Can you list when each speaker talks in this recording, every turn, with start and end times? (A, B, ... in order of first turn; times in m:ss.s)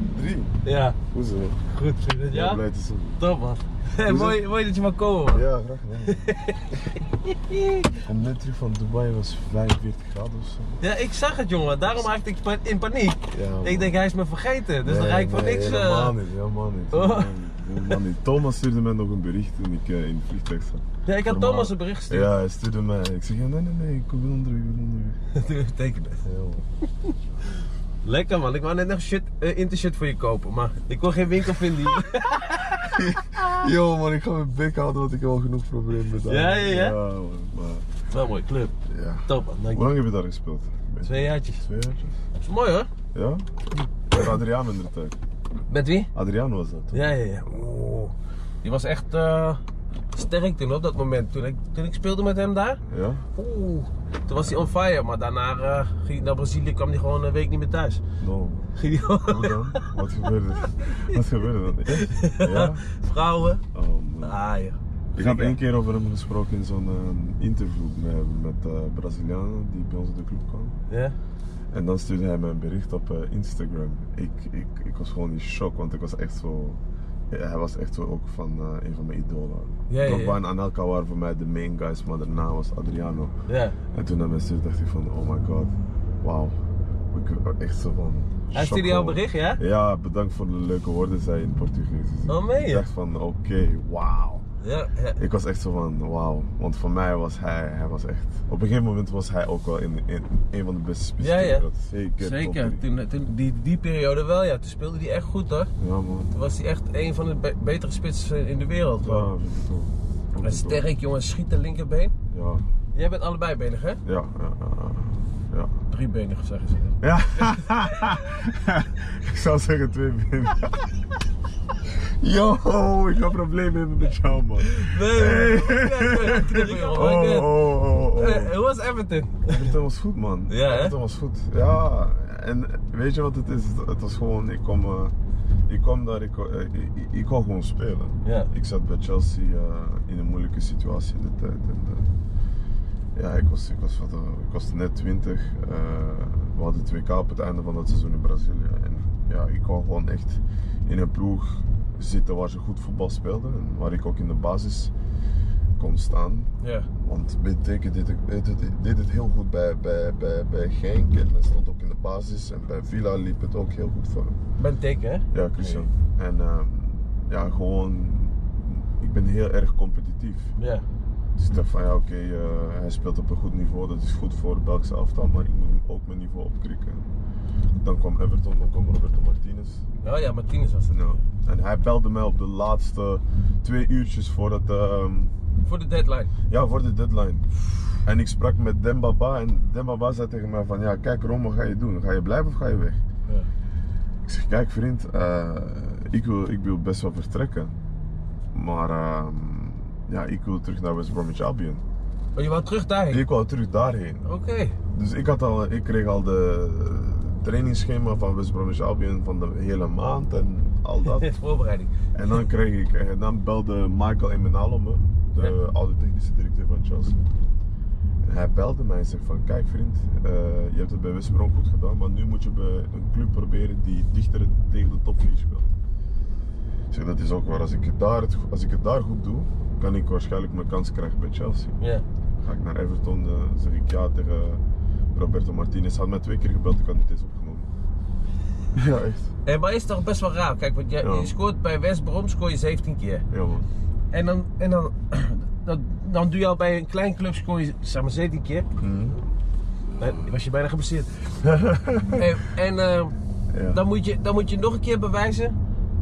0:00.1-0:00.5 A
0:00.6-0:01.0 B
0:01.1-0:01.6 A
0:01.7-0:02.6 B
0:02.3-0:03.2 A
0:03.2-0:05.4 B
0:04.0-0:04.4 A
0:05.3-0:06.3 A
0:06.1-0:08.0 B
0:08.0-0:10.8 A
0:10.8-0:16.2 B
0:13.3-0:14.0 A
0:14.8-0:25.2 A
0:16.9-0:18.0 B
0:21.0-0:22.3 B
0:25.3-0:26.2 B
0:26.2-0:26.6 A
0:28.0-0:32.9 B
0:32.8-0:37.9 A
0:36.2-0:37.0 B
0:38.1-0:38.8 B
0:38.9-0:42.2 A
0:39.3-0:39.9 B
0:41.0-0:41.6 B
0:42.4-0:42.9 B
0:43.1-0:43.4 A
0:44.1-0:45.2 A
0:45.7-0:46.1 B
0:46.1-0:48.1 A
0:46.9-0:48.0 B
0:48.6-0:49.6 B
0:50.1-0:52.8 B
0:52.8-0:53.2 A
0:53.3-0:58.0 B
0:58.2-1:02.8 A
0:58.8-0:59.9 B
1:00.8-1:01.2 B
1:01.9-1:03.6 B
1:03.7-1:04.4 A
1:04.2-1:05.6 B
1:05.1-1:10.8 A
1:10.9-1:11.2 B
1:11.7-1:23.3 A
1:19.9-1:20.4 B
1:23.5-1:23.8 B
1:23.9-1:26.6 A
1:27.1-1:34.4 A
1:28.5-1:29.6 B
1:32.3-1:32.9 B
1:34.6-1:35.2 B
1:35.2-1:42.8 A
1:41.2-1:41.6 B
1:42.2-1:45.7 B
1:45.8-1:46.3 A
1:46.3-1:49.3 B
1:49.0-1:50.9 A
1:50.4-1:52.1 B
1:52.3-1:52.7 A
1:52.9-1:54.0 B
1:54.0-1:55.8 A
1:55.9-1:58.2 B
1:57.0-2:01.1 A
2:01.8-2:08.5 A
2:04.6-2:09.7 B
2:09.4-2:15.1 A
2:10.5-2:10.9 B
2:15.7-2:22.1 A
2:18.2-2:18.5 B
2:23.1-2:34.9 A
2:35.8-2:44.4 A
2:36.6-2:36.9 B
2:44.6-2:45.9 B
2:45.3-2:50.5 A
2:50.6-2:50.8 B
2:51.4-2:57.1 A
2:57.8-2:59.8 A
3:00.0-3:01.2 B
3:00.9-3:05.3 A
3:05.6-3:06.3 B
3:06.5-3:07.5 A
3:08.0-3:13.0 A
3:14.2-3:17.7 A
3:18.5-3:21.8 A
3:22.4-3:23.2 B
3:23.1-3:24.2 A
3:24.2-3:24.8 B
3:24.9-3:31.3 A
3:31.0-3:31.9 B
3:32.1-3:37.3 A
3:38.2-3:45.7 A
3:46.9-3:51.8 A
3:51.8-3:52.0 B
3:52.4-3:54.6 A
3:55.1-3:57.7 A
3:58.7-3:59.3 A
3:59.4-4:03.2 B
4:01.0-4:01.3 A
4:03.3-4:03.7 A
4:04.1-4:08.7 B
4:08.8-4:09.2 A
4:10.0-4:11.3 B
4:11.4-4:12.3 A
4:12.1-4:13.2 B
4:13.5-4:13.8 A
4:13.7-4:15.6 B